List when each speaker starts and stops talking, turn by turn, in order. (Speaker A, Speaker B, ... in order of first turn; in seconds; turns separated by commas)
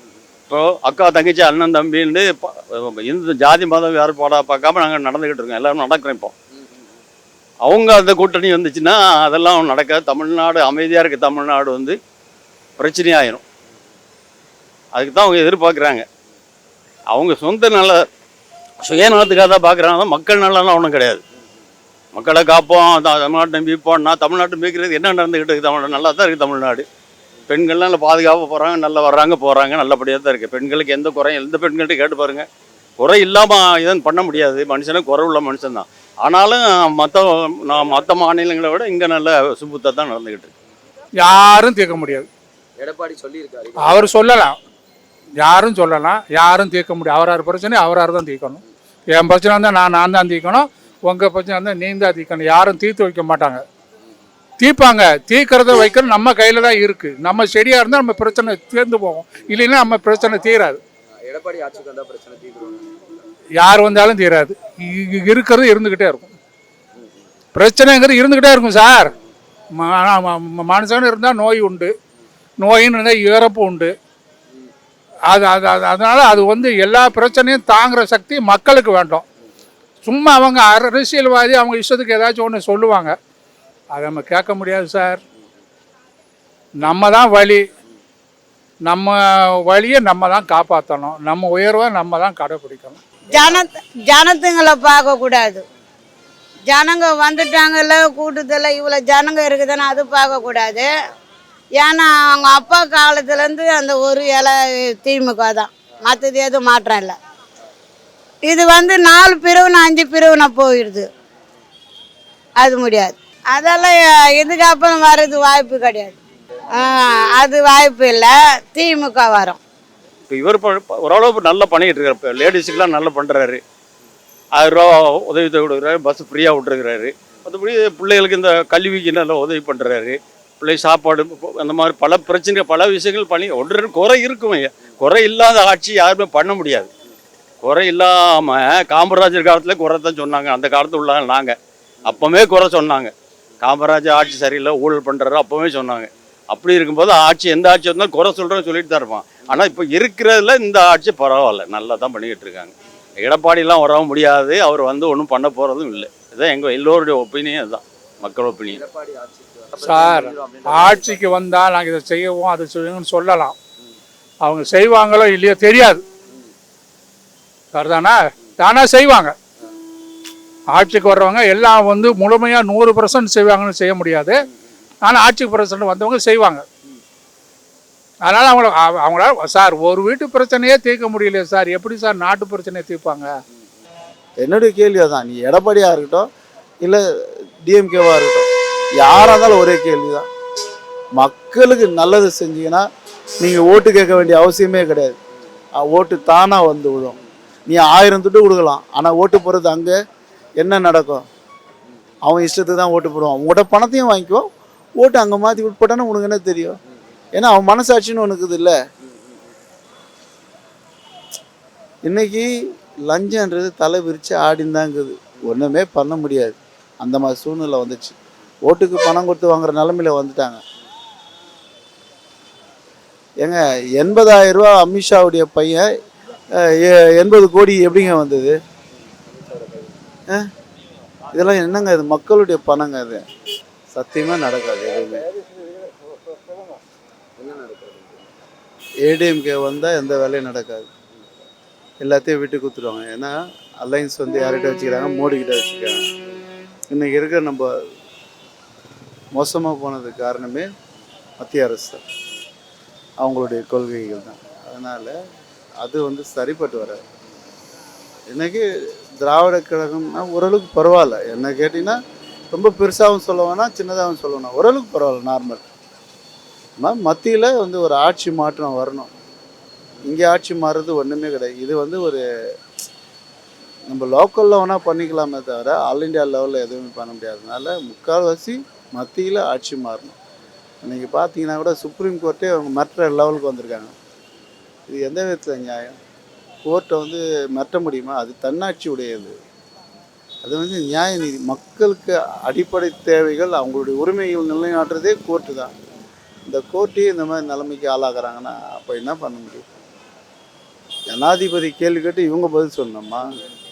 Speaker A: 0.5-6.3, Speaker A: 7.7-12.0, Speaker A: 12.8-13.4, Speaker A: 14.9-16.1, Speaker A: 17.1-18.0, Speaker A: 18.8-21.2, Speaker A: 22.1-26.9, Speaker A: 27.5-32.5, Speaker A: 33.0-40.5, Speaker B: 41.2-42.3, Speaker C: 42.8-44.1, Speaker B: 43.8-44.6, Speaker B: 45.4-53.6, Speaker B: 54.6-60.8, Speaker C: 61.3-63.2, Speaker B: 63.6-66.3, Speaker B: 67.5-69.1, Speaker B: 69.8-71.9, Speaker B: 72.6-73.9, Speaker B: 75.3-79.2, Speaker B: 80.1-83.1, Speaker B: 83.9-85.2, Speaker B: 86.8-87.6, Speaker B: 88.9-93.0, Speaker D: 93.3-95.6, Speaker D: 96.7-100.9, Speaker D: 101.8-107.2, Speaker D: 108.4-111.1, Speaker D: 112.6-116.2, Speaker D: 116.7-119.6, Speaker A: 120.3-123.6, Speaker A: 124.6-136.9, Speaker A: 137.6-141.5, Speaker A: 142.1-158.8, Speaker C: 158.7-161.0, Speaker B: 159.8-163.6, Speaker B: 164.4-166.0, Speaker B: 167.7-169.3, Speaker B: 170.7-174.5, Speaker B: 175.0-176.6, Speaker B: 178.3-183.3, Speaker E: 184.4-186.3, Speaker E: 187.7-188.5, Speaker E: 189.0-190.3, Speaker E: 191.2-192.8, Speaker E: 193.4-195.2, Speaker E: 195.8-199.9, Speaker E: 200.6-201.2, Speaker E: 202.3-204.5, Speaker E: 205.0-206.8, Speaker E: 207.4-208.8, Speaker E: 212.1-212.5, Speaker E: 213.1-218.2, Speaker E: 218.7-220.6, Speaker E: 223.4-225.8, Speaker E: 226.6-228.6, Speaker C: 229.6-229.9, Speaker E: 231.3-233.2, Speaker E: 233.9-235.3, Speaker C: 237.4-238.2, Speaker E: 239.1-240.9, Speaker E: 242.0-246.0, Speaker E: 246.9-247.7, Speaker E: 249.4-250.7, Speaker E: 251.4-252.0, Speaker E: 253.2-255.1, Speaker E: 255.8-257.0, Speaker E: 258.3-258.6, Speaker E: 259.2-262.0, Speaker E: 262.5-265.6, Speaker E: 266.8-269.1, Speaker E: 270.1-272.2, Speaker E: 273.9-280.1, Speaker E: 280.8-283.9, Speaker E: 284.9-285.9, Speaker E: 286.6-289.3, Speaker E: 290.4-295.7, Speaker E: 296.5-299.6, Speaker E: 301.1-303.2